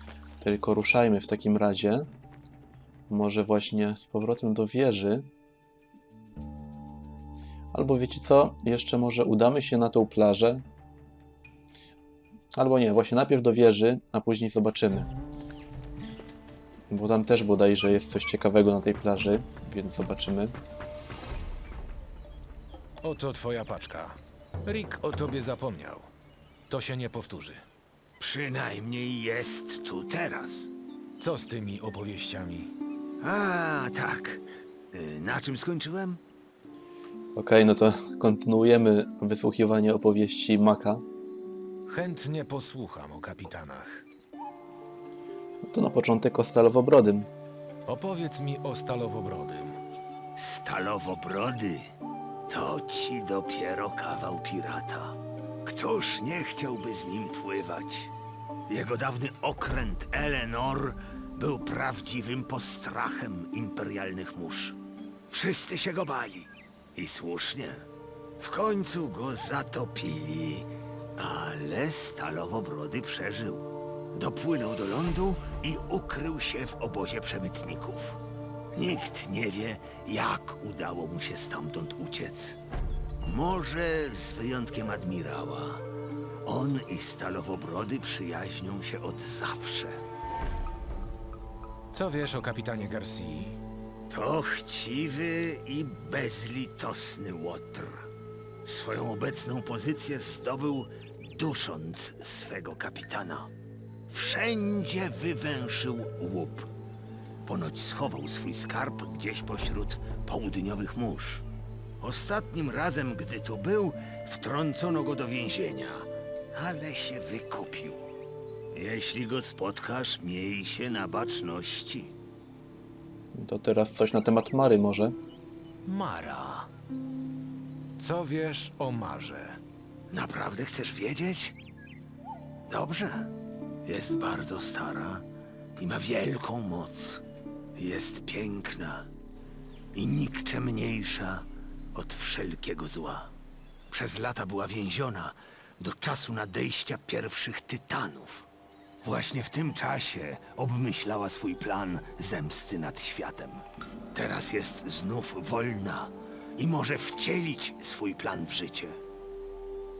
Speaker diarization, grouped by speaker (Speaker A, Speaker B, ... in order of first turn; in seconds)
Speaker A: 0.4-2.1, 3.1-5.2, 7.7-10.6, 12.5-15.1, 16.9-20.5, 37.4-41.0, 45.7-47.3, 123.3-125.1
Speaker B: 23.0-26.1, 26.7-27.6, 31.2-32.7, 41.9-44.0, 47.9-49.8, 91.9-93.6, 125.8-126.7, 128.0-129.6
Speaker C: 28.2-30.7, 33.2-36.2, 50.4-51.9, 52.5-58.1, 58.7-64.8, 65.3-67.9, 68.4-78.2, 78.7-82.6, 83.2-85.8, 86.4-90.0, 94.1-98.1, 98.6-103.5, 104.1-106.7, 107.5-111.4, 112.0-118.0, 118.7-122.1, 130.1-131.6, 132.7-133.3, 133.8-135.2, 135.8-137.2, 137.8-139.1, 139.9-143.3, 143.9-148.5, 149.0-159.0